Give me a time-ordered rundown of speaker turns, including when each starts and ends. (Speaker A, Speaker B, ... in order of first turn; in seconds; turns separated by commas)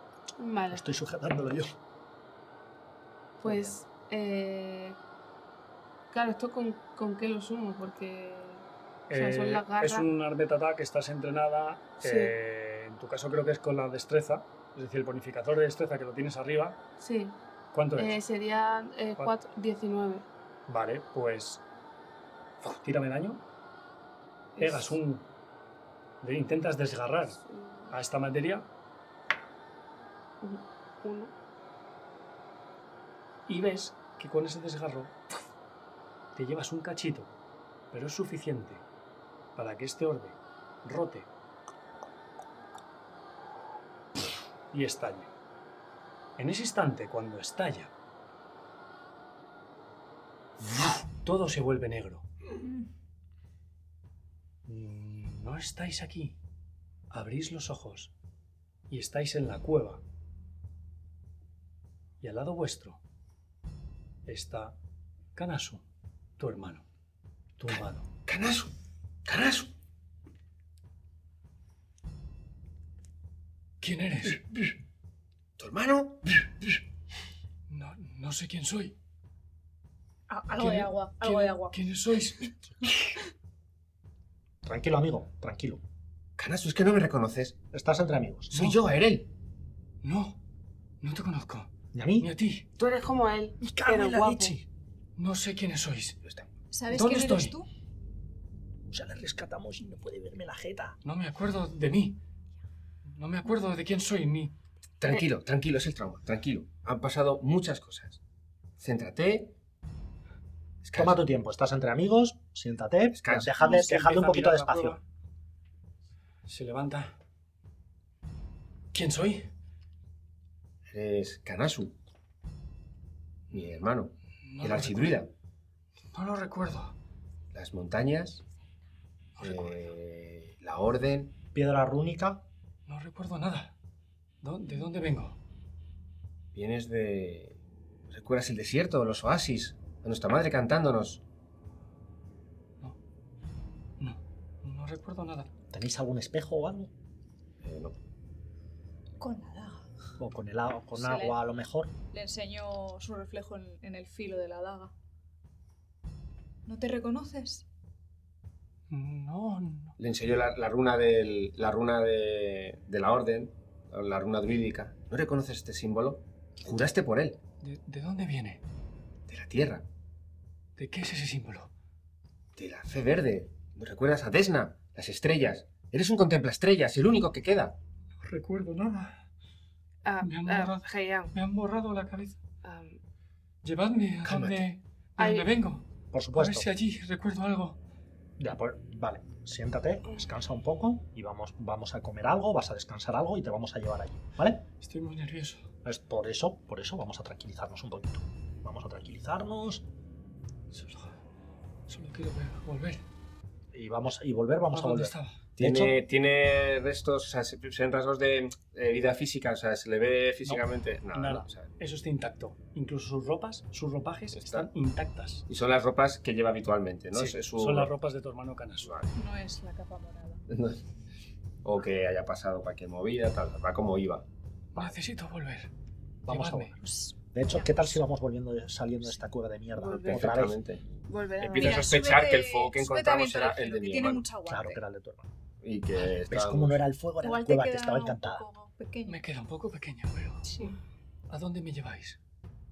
Speaker A: 0.4-0.9, Speaker B: 0.7-1.7, Speaker B: 3.4-3.8, Speaker A: 3.4-5.0, Speaker A: 6.1-10.1, Speaker C: 9.1-16.8, Speaker A: 12.0-12.3, Speaker A: 17.0-17.4, Speaker C: 17.7-18.2, Speaker A: 18.0-20.3, Speaker C: 20.7-21.6, Speaker C: 22.6-23.4, Speaker A: 24.6-25.0, Speaker C: 24.6-25.3, Speaker C: 26.2-28.7, Speaker A: 27.4-27.9, Speaker A: 30.4-31.3, Speaker C: 33.5-35.4, Speaker C: 36.4-37.3, Speaker C: 37.9-38.9, Speaker C: 39.5-41.3, Speaker C: 44.7-45.3, Speaker C: 46.4-47.9, Speaker C: 50.6-52.3, Speaker C: 54.7-56.4, Speaker C: 57.1-58.1, Speaker C: 58.9-60.0, Speaker C: 62.2-63.0, Speaker C: 64.3-64.8, Speaker C: 65.3-65.8, Speaker C: 66.4-66.9, Speaker C: 67.6-68.1, Speaker D: 67.7-68.7, Speaker D: 69.2-69.7, Speaker C: 73.8-74.5, Speaker D: 75.6-76.5, Speaker C: 77.7-79.0, Speaker E: 80.3-81.8, Speaker C: 80.5-82.5, Speaker B: 84.6-85.8, Speaker D: 86.4-87.6, Speaker B: 87.7-88.5, Speaker D: 88.5-89.3, Speaker C: 88.5-88.8, Speaker C: 90.0-90.4, Speaker C: 91.0-92.7, Speaker B: 91.9-92.3, Speaker A: 92.8-94.6, Speaker B: 93.6-94.7, Speaker C: 95.2-96.2, Speaker D: 96.2-96.5, Speaker E: 96.7-97.7, Speaker C: 96.9-97.6, Speaker B: 98.9-101.0, Speaker C: 101.0-102.2, Speaker C: 103.1-104.6, Speaker D: 105.0-108.2, Speaker D: 108.8-109.6, Speaker D: 110.8-111.2, Speaker B: 110.9-115.0, Speaker D: 113.2-113.6, Speaker C: 113.6-115.0, Speaker C: 116.5-117.2, Speaker C: 118.9-119.5, Speaker D: 120.9-122.0, Speaker D: 123.5-125.3, Speaker C: 124.4-125.2, Speaker C: 126.1-127.0, Speaker D: 127.5-128.4, Speaker C: 129.4-129.9, Speaker D: 129.4-131.4, Speaker B: 131.5-132.5, Speaker C: 132.9-133.8, Speaker C: 134.4-135.4, Speaker D: 136.6-137.6, Speaker D: 138.1-141.2, Speaker C: 144.0-145.5, Speaker B: 145.7-146.9, Speaker D: 147.6-148.0, Speaker E: 149.2-149.8, Speaker B: 150.2-151.9, Speaker E: 150.9-151.4, Speaker E: 152.1-154.9, Speaker E: 156.7-157.7, Speaker C: 158.9-160.0, Speaker D: 160.0-167.4, Speaker C: 167.6-168.6, Speaker D: 169.3-169.9, Speaker C: 170.8-171.7, Speaker D: 172.6-177.8, Speaker C: 178.2-179.2, Speaker A: 180.1-181.3, Speaker C: 180.2-182.4, Speaker A: 182.6-183.0, Speaker C: 183.6-187.8, Speaker D: 184.2-184.7, Speaker A: 185.2-185.5, Speaker B: 186.1-186.7, Speaker B: 188.4-194.7, Speaker C: 194.8-195.7, Speaker B: 195.8-199.9, Speaker C: 200.7-201.1, Speaker C: 201.9-203.1, Speaker B: 203.7-206.0, Speaker C: 204.7-205.4, Speaker D: 205.6-211.7, Speaker C: 210.4-215.4, Speaker D: 214.3-214.7, Speaker D: 215.5-217.9, Speaker C: 217.1-218.9, Speaker D: 218.8-219.1, Speaker E: 219.2-220.5, Speaker D: 220.5-220.8, Speaker D: 221.6-224.3, Speaker C: 224.8-225.7, Speaker B: 226.2-226.8, Speaker C: 226.3-226.8, Speaker E: 226.8-228.0, Speaker B: 227.3-230.6, Speaker A: 229.8-230.4, Speaker D: 229.9-230.8, Speaker A: 231.1-231.9, Speaker D: 231.4-234.3, Speaker E: 231.6-234.8, Speaker B: 234.5-235.3, Speaker D: 235.6-236.8, Speaker B: 236.0-238.4, Speaker E: 237.2-239.2, Speaker C: 239.1-240.5, Speaker E: 240.4-240.8, Speaker C: 241.3-242.2